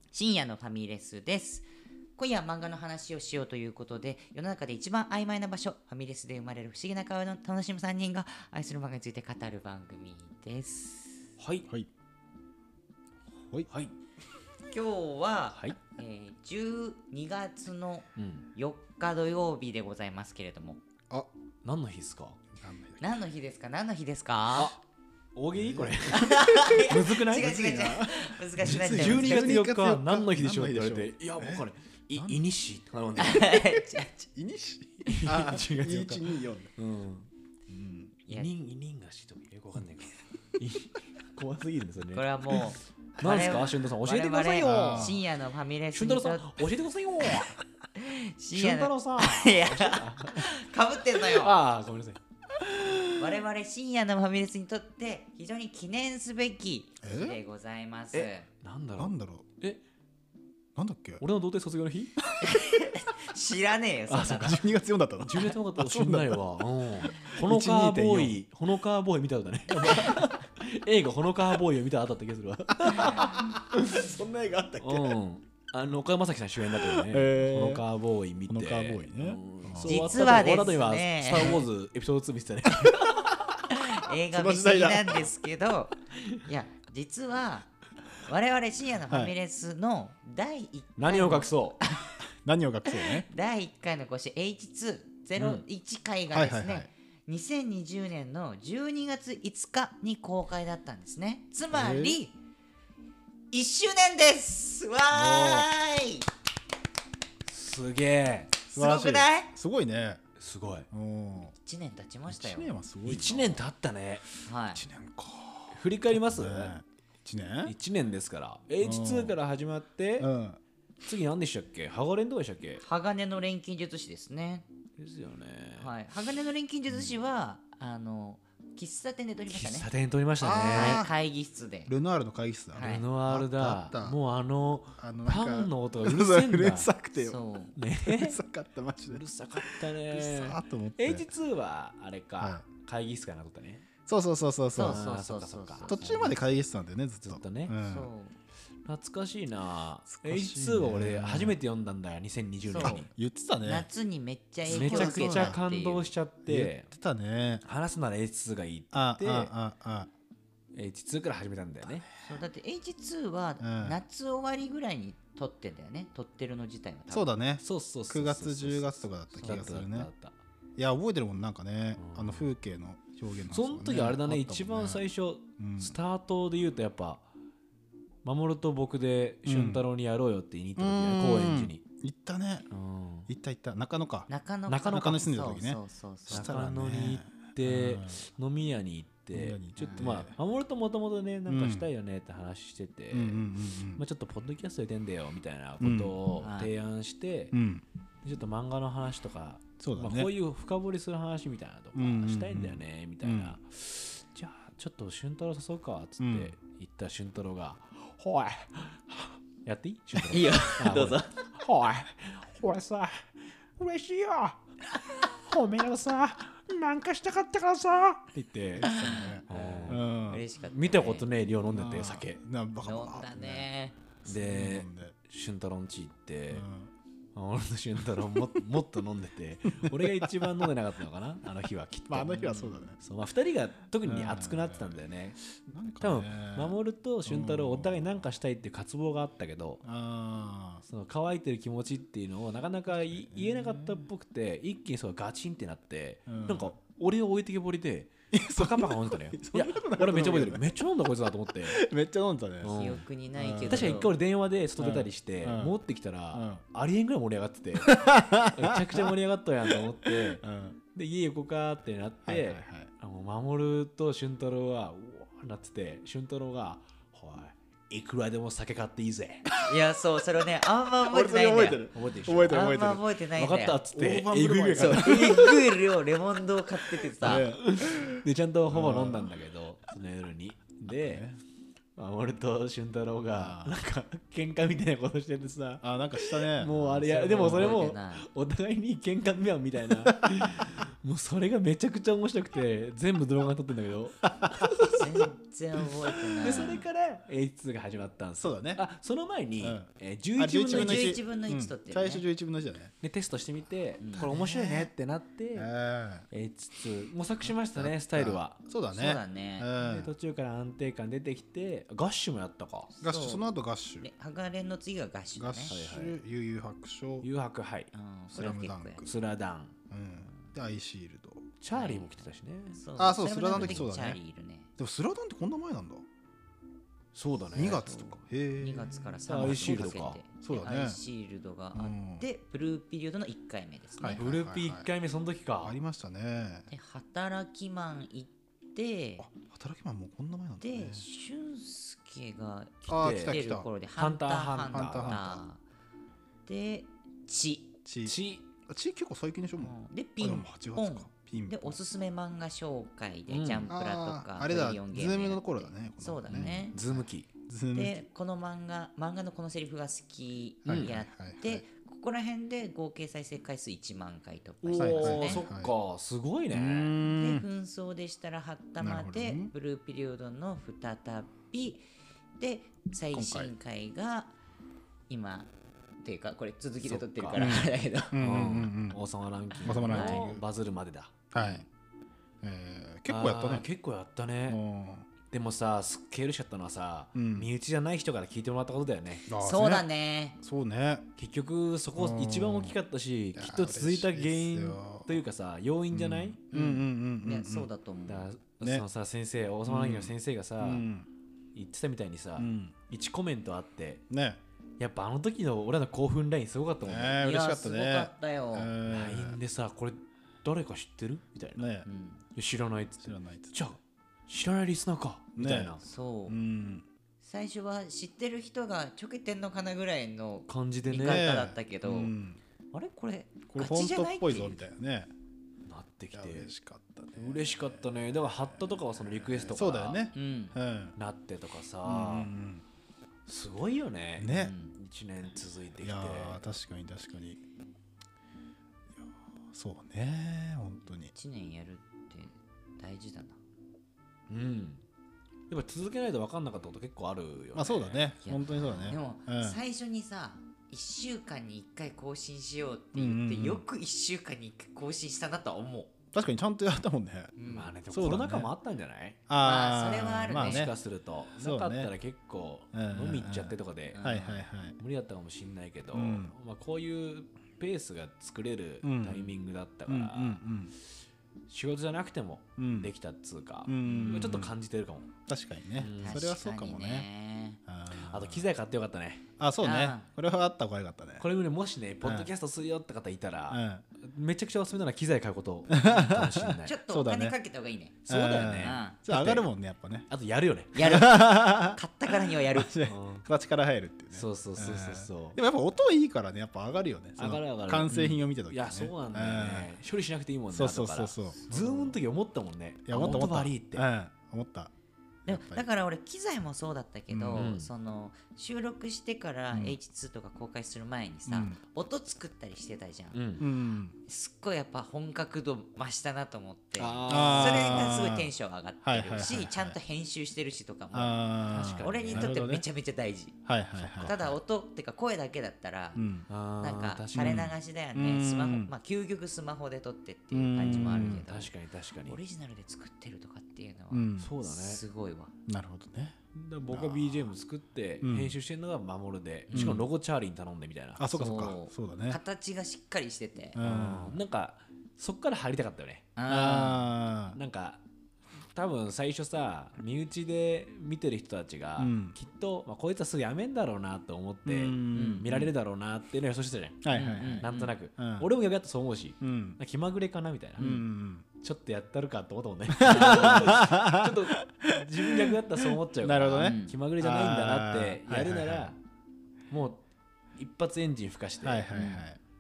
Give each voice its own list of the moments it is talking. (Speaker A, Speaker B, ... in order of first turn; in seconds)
Speaker A: 0.1-11.3, 14.7-20.8, 23.0-24.8, 26.1-29.5, 33.2-34.1, 42.1-46.6, 47.9-51.6, 53.0-58.5, 62.4-64.7, 79.8-81.7, 83.7-92.2, 92.8-102.4, 103.5-106.3, 108.7-109.5, 111.6-112.7, 114.5-114.8, 122.8-124.7, 125.8-129.9, 130.7-131.9, 132.7-133.0, 137.2-137.8, 144.7-146.0, 147.8-148.4, 152.7-153.1, 153.6-156.1, 162.2-167.3, 184.3-186.6, 189.8-190.1, 196.4-196.7, 210.2-211.5, 218.9-221.3, 222.8-224.0, 252.7-254.1, 269.6-273.8, 274.7-277.5, 287.1-288.3, 294.9-296.9, 300.7-302.2, 304.0-304.3, 308.9-309.7, 312.9-313.5, 314.0-315.8, 317.9-319.0, 321.7-324.7, 327.6-334.3, 336.7-339.3, 340.6-345.6, 346.5-347.7, 349.6-356.8, 357.7-365.5, 367.0-371.9, 372.4-374.3, 375.1-378.1, 379.7-380.3, 389.3-390.4, 396.5-398.3, 407.2-408.8, 411.8-412.2, 415.8-416.4, 417.2-422.1, 422.7-424.6, 430.1-430.6, 434.3-434.7, 441.1-443.4, 448.2-455.9, 457.4-457.8, 459.4-460.7, 463.9-464.5, 475.9-477.6, 479.6-480.1, 486.7-489.0, 490.8-492.7, 497.9-498.2, 501.4-501.9, 502.9-503.3, 505.3-513.2, 514.0-523.4, 524.0-526.0, 526.6-535.3, 539.5-539.9, 541.2-543.6, 546.2-546.9, 554.9-555.3, 556.9-557.7, 566.4-566.8, 571.7-572.0
Speaker B: 11.4-11.7, 15.5-15.8, 18.2-18.5, 21.6-22.4, 24.6-24.8, 25.4-27.7, 28.6-33.6, 35.1-37.3, 38.3-45.2, 45.9-47.6, 48.5-50.6, 51.1-52.2, 58.1-59.8, 61.2-62.1, 64.1-64.6, 65.2-74.1, 74.8-83.4, 91.0-91.8, 95.4-95.6, 107.5-108.6, 110.4-110.9, 113.0-114.3, 115.7-116.8, 117.7-120.3, 121.0-122.8, 125.0-125.9, 129.5-131.0, 132.8-136.9, 137.8-138.4, 139.1-143.8, 144.8-146.4, 147.3-147.8, 148.8-153.1, 154.7-156.9, 157.6-159.5, 160.7-162.1, 167.6-170.4, 172.0-172.5, 173.5-177.2, 178.2-181.8, 182.7-183.3, 184.7-185.2, 186.3-197.6, 198.2-218.9, 219.5-220.0, 220.7-222.4, 224.3-226.7, 227.3-235.4, 236.0-239.8, 240.9-251.8, 252.6-253.1, 253.7-260.4, 260.9-269.5, 271.9-275.7, 277.2-281.3, 282.0-295.2, 296.4-301.2, 303.0-305.7, 306.3-308.6, 309.8-312.9, 315.7-316.2, 317.2-317.9, 319.0-319.7, 321.6-322.8, 323.5-323.9, 327.1-327.8, 329.3-330.2, 334.2-335.8, 342.9-343.4, 343.9-345.2, 348.0-348.5, 353.3-353.7, 356.3-357.3, 360.7-361.0, 364.6-367.0, 376.8-377.5, 378.2-381.6, 383.1-384.6, 385.3-389.3, 391.2-396.4, 398.1-400.9, 401.6-404.0, 404.8-407.2, 408.9-411.7, 412.4-415.8, 420.5-421.3, 425.7-426.5, 427.1-430.1, 431.0-432.3, 433.3-436.5, 444.3-444.8, 445.5-448.1, 457.4-459.2, 460.3-464.0, 464.8-470.4, 471.5-475.1, 475.8-476.3, 477.9-479.2, 481.2-486.8, 488.1-489.5, 490.1-490.8, 492.9-493.3, 494.1-495.4, 497.2-503.9, 507.2-507.7, 513.1-513.5, 516.8-518.1, 521.5-522.4, 523.7-524.3, 526.3-527.5, 530.6-532.2, 534.2-534.8, 536.3-541.5, 543.6-546.1, 547.3-547.8, 548.5-560.9, 561.4-568.8, 569.5-569.8, 570.4-571.9
Speaker C: 13.4-13.7, 22.6-23.1, 25.5-32.4, 33.5-36.7, 37.7-38.2, 44.6-45.2, 57.0-57.4, 59.0-59.5, 60.8-61.2, 62.2-62.5, 64.3-66.5, 67.1-68.4, 69.8-70.3, 72.8-75.2, 76.6-77.9, 78.5-80.4, 84.3-85.3, 89.1-89.3, 92.2-93.3, 96.3-96.9, 101.7-102.2, 105.1-105.7, 108.7-110.2, 110.9-111.5, 112.3-113.7, 114.7-117.8, 118.8-119.4, 120.2-120.6, 130.4-131.1, 131.9-134.2, 135.0-137.4, 138.1-141.3, 142.4-142.7, 144.1-145.1, 145.9-148.1, 150.1-151.6, 152.7-153.9, 154.7-155.6, 156.5-157.7, 158.9-160.1, 163.6-164.0, 167.1-170.1, 170.8-175.0, 175.6-176.0, 179.4-179.9, 180.8-182.7, 183.3-184.3, 184.9-188.2, 189.3-190.4, 191.5-191.9, 193.1-194.0, 195.8-196.2, 197.5-197.8, 199.8-200.3, 201.9-203.6, 206.2-206.6, 218.8-220.4, 221.7-223.7, 224.2-225.2, 226.5-226.9, 229.7-230.7, 232.1-233.0, 234.0-235.0, 235.6-238.3, 239.8-240.8, 242.9-244.1, 246.3-246.8, 248.3-250.7, 251.5-252.8, 253.3-254.1, 254.8-255.8, 256.3-256.6, 257.7-259.1, 259.7-260.8, 262.2-262.9, 269.5-270.0, 271.1-273.0, 273.9-275.7, 277.2-279.4, 280.9-281.4, 283.3-283.8, 285.8-287.8, 296.4-296.8, 298.4-298.9, 299.6-302.9, 304.2-304.9, 305.6-306.3, 307.4-310.1, 313.0-314.1, 315.4-317.3, 318.3-319.1, 319.9-321.4, 323.0-324.2, 324.8-326.1, 327.5-331.0, 331.7-332.2, 334.0-334.9, 335.6-336.7, 339.2-341.1, 342.9-343.7, 344.6-345.5, 347.9-351.8, 353.7-358.1, 360.6-361.6, 364.8-365.7, 366.5-367.5, 368.8-369.5, 373.1-373.5, 377.4-379.0, 379.6-380.4, 381.3-381.7, 382.4-383.7, 384.5-385.1, 387.1-387.5, 389.3-389.9, 390.4-391.1, 392.0-392.8, 393.3-395.2, 395.9-397.7, 399.7-401.1, 402.4-402.8, 404.1-404.4, 406.8-409.4, 411.6-411.9, 413.0-413.8, 415.4-416.9, 421.0-422.4, 423.5-425.1, 426.1-431.0, 431.8-432.6, 434.2-434.6, 435.8-437.4, 439.5-441.1, 447.5-449.6, 452.9-453.6, 456.1-458.5, 459.3-460.8, 461.4-461.9, 462.7-464.8, 465.9-466.3, 468.8-469.3, 469.9-470.7, 472.6-472.9, 473.6-474.6, 475.3-477.1, 477.6-478.5, 479.4-481.3, 482.0-482.3, 483.5-483.9, 485.7-487.4, 488.1-490.1, 490.8-499.8, 500.5-502.0, 502.9-504.7, 505.2-505.6, 511.3-511.6, 513.4-514.0, 517.1-518.3, 518.8-519.8, 520.9-522.6, 523.5-524.2, 526.0-526.3, 527.1-528.7, 530.3-531.2, 533.9-534.3, 535.5-537.3, 538.0-538.4, 539.5-539.9, 541.0-542.2, 543.5-544.2, 546.3-547.4, 551.8-552.2, 554.5-555.5, 556.8-558.3, 559.2-559.6, 560.6-561.3, 562.7-568.8, 571.4-572.2